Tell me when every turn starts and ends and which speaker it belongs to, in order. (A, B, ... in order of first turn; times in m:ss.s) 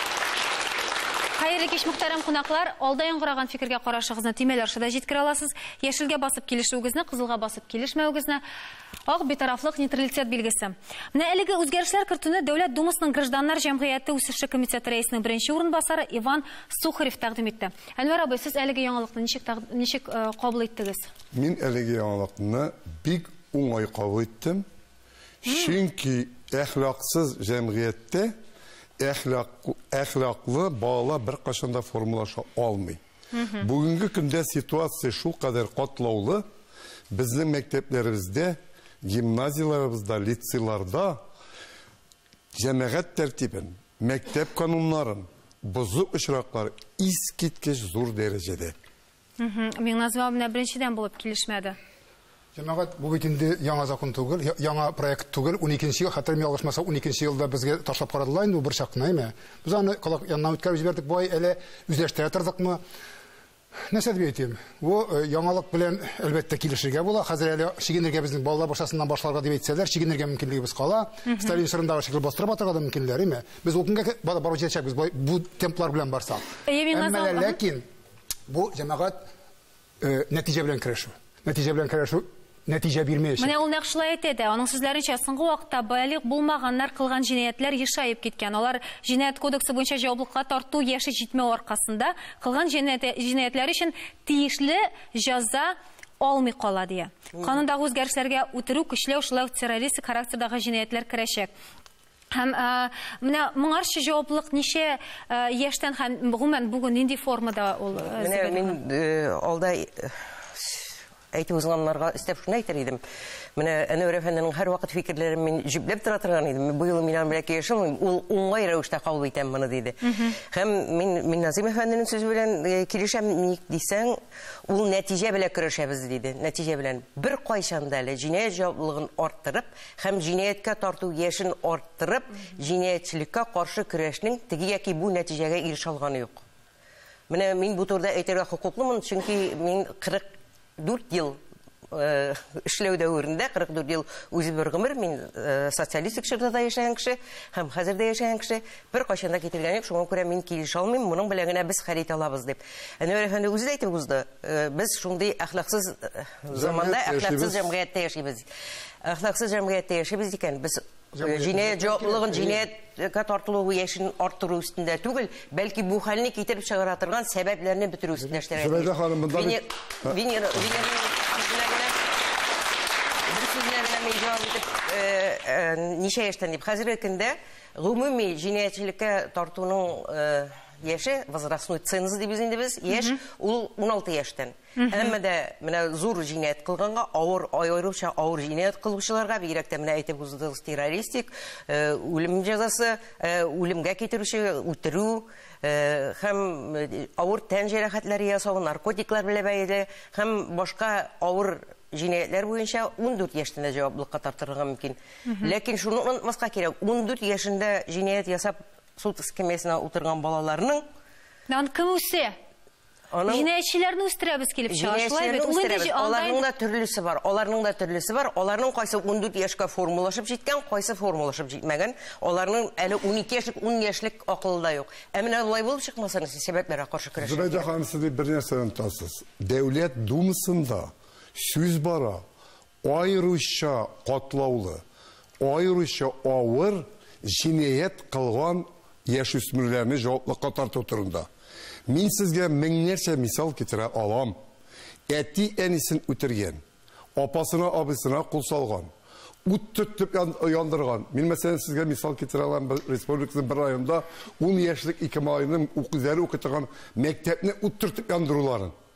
0:01.4-0:08.4 A
0:09.1-0:21.1 A
0:21.3-0:24.6 B
0:25.4-0:28.3 B
0:25.5-0:25.7 A
0:29.0-0:33.0 B
0:33.4-0:33.6 A
0:33.6-0:36.4 B
0:37.1-0:41.2 B
0:42.5-0:48.7 B
0:49.4-0:51.8 A
0:52.5-1:02.8 C
1:03.9-1:17.8 C
1:16.6-1:17.6 A
1:18.5-1:19.2 C
1:20.0-1:23.5 C
1:23.4-1:41.5 A
1:37.3-1:37.6 D
1:42.3-1:48.8 A
1:48.0-1:53.0 D
1:53.6-2:16.4 D
2:17.3-2:38.5 D
2:36.5-2:37.7 B
2:39.0-2:52.0 D
2:41.1-2:42.6 C
2:48.5-2:50.2 B
2:53.3-3:30.8 D
3:04.8-3:05.1 A
3:25.3-3:25.5 A
3:31.5-3:32.4 A
3:33.1-3:33.5 D
3:33.3-3:36.4 A
3:34.7-3:47.7 D
3:47.2-3:52.2 B
3:52.8-3:54.8 B
3:55.4-4:01.3 B
4:01.9-4:04.4 B
4:05.1-4:06.6 B
4:07.2-4:08.9 B
4:09.4-4:18.7 B